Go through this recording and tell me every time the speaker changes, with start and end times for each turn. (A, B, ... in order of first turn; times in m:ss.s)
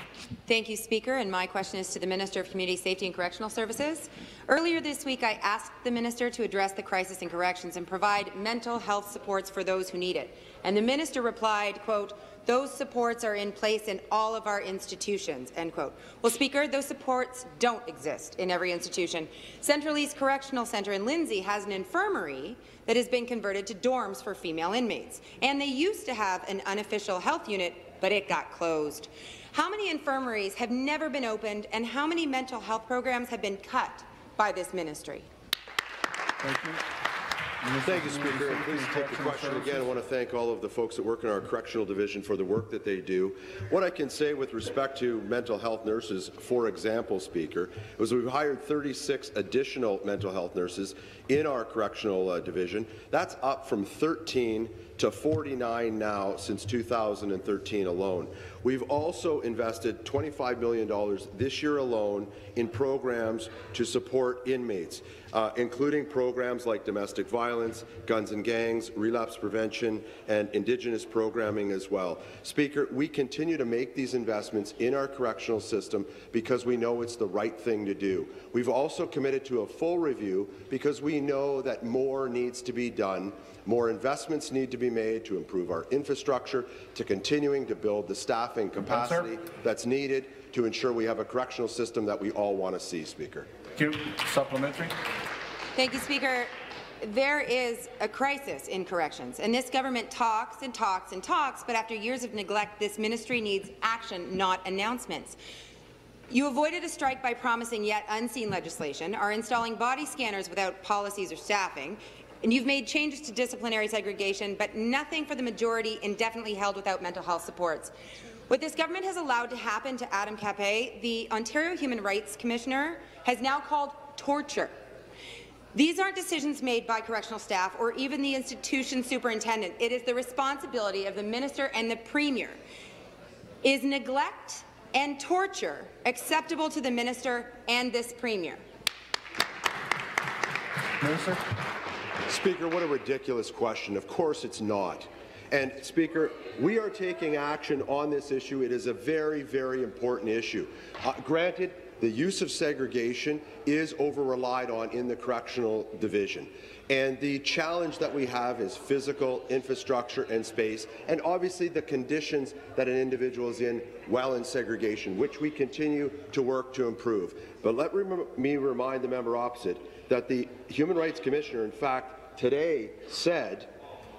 0:00.5-0:35.3 A
0:36.4-0:36.8 B
0:37.6-0:39.9 B
0:37.8-1:33.5 C
1:28.8-1:29.3 B
1:33.8-1:34.9 B
1:35.7-1:45.4 A
1:46.3-1:57.9 A
1:58.5-2:04.7 A
2:05.7-2:12.6 A
2:13.6-2:18.6 A
2:21.0-2:21.4 B
2:22.2-2:53.7 C